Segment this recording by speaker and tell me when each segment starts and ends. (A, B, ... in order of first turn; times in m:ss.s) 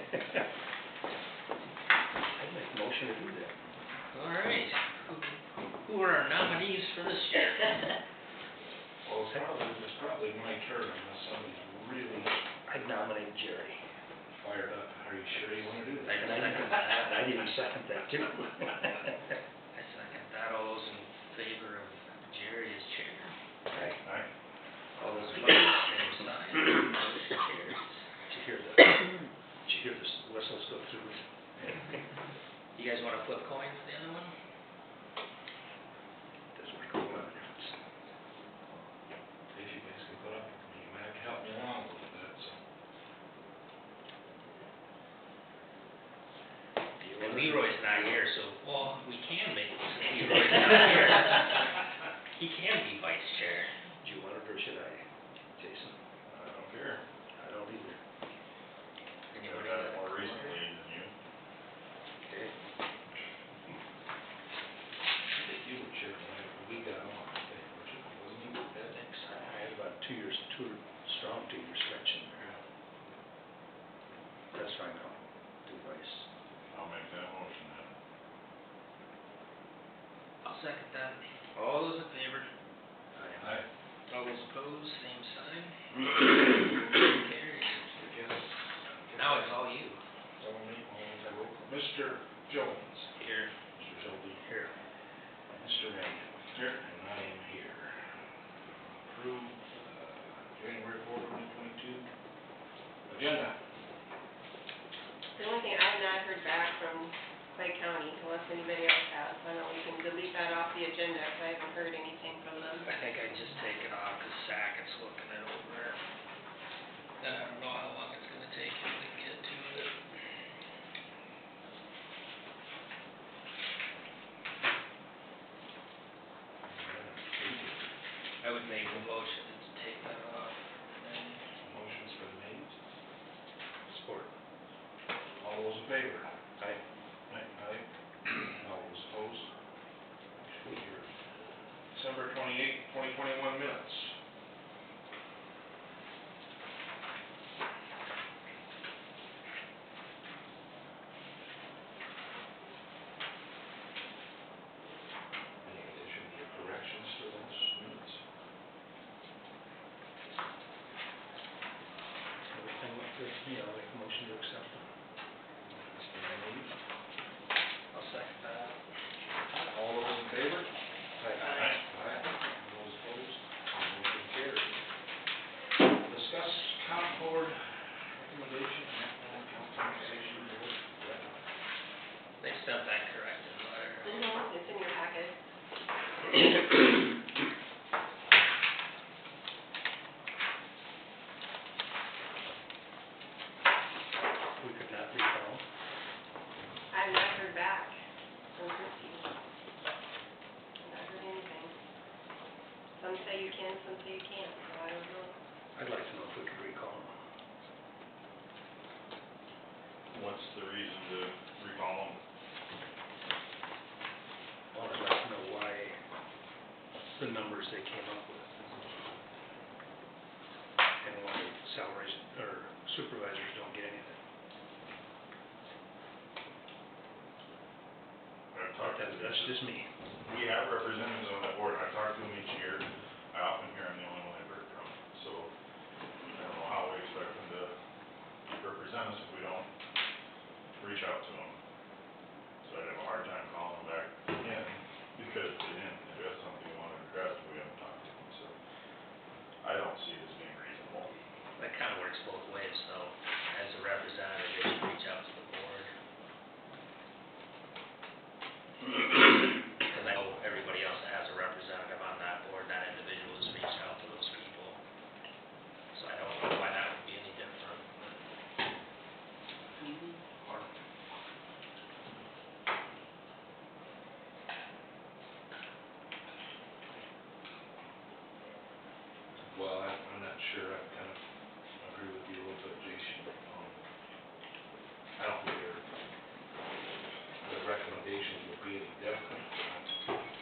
0:02.3-0:03.5 A
0:04.1-0:07.9 B
0:09.0-0:12.4 C
0:12.7-0:13.8 A
0:14.4-0:16.3 C
0:16.0-0:17.5 B
0:16.2-0:19.2 A
0:19.7-0:23.3 B
0:23.7-0:24.0 A
0:24.0-0:24.3 C
0:25.0-0:25.9 A
0:25.2-0:28.0 B
0:28.3-0:31.8 A
0:32.8-0:34.3 B
0:36.5-0:37.7 A
0:39.5-0:42.6 C
0:47.0-0:48.2 A
0:47.2-0:51.8 B
0:52.4-0:53.7 B
0:54.0-0:55.0 A
0:55.6-0:56.0 A
0:56.3-0:57.0 D
0:57.4-0:58.0 A
0:59.3-1:00.6 B
0:59.4-1:01.1 D
1:02.3-1:02.5 A
1:05.3-1:09.3 C
1:09.3-1:12.5 A
1:14.5-1:16.3 A
1:16.7-1:17.9 D
1:20.4-1:22.5 B
1:23.1-1:23.4 A
1:23.4-1:23.6 C
1:24.1-1:27.8 B
1:27.8-1:29.6 C
1:29.1-1:30.0 B
1:30.4-1:33.1 C
1:33.2-1:33.5 B
1:33.8-1:34.4 C
1:34.4-1:34.7 A
1:35.5-1:38.0 C
1:39.0-1:42.1 C
1:43.1-1:43.6 C
1:45.3-1:52.8 E
1:52.8-1:56.0 B
1:57.2-1:59.9 B
2:06.6-2:07.9 C
2:08.4-2:11.4 B
2:11.6-2:12.7 C
2:13.9-2:14.3 A
2:15.4-2:19.5 C
2:20.4-2:21.1 C
2:21.9-2:24.1 C
2:35.6-2:38.2 C
2:42.5-2:44.9 A
2:45.6-2:46.7 C
2:47.9-2:48.8 B
2:49.5-2:54.7 C
2:56.0-3:01.4 C
3:02.4-3:04.2 B
3:04.0-3:05.4 E
3:14.6-3:15.6 A
3:16.9-3:18.0 E
3:18.5-3:19.3 E
3:20.8-3:21.7 E
3:23.0-3:25.4 E
3:25.8-3:27.1 A
3:30.1-3:32.2 D
3:34.7-3:36.0 A
3:37.1-3:38.6 A
3:41.0-3:44.2 A
3:48.5-3:49.6 D
3:48.8-3:49.9 A
3:50.2-3:55.5 D
3:56.3-3:57.7 D
3:58.5-3:59.7 D
4:00.7-4:01.6 D
4:02.6-4:04.4 D
4:04.4-4:04.7 C
4:05.1-4:08.6 D
4:09.6-4:11.1 D
4:11.6-4:15.9 B
4:19.1-4:24.8 B
4:25.9-4:28.0 B
4:29.8-4:30.7 C
4:39.4-4:41.2 C
4:41.8-4:43.8 C
4:45.2-4:45.8 C
4:47.4-4:49.9 C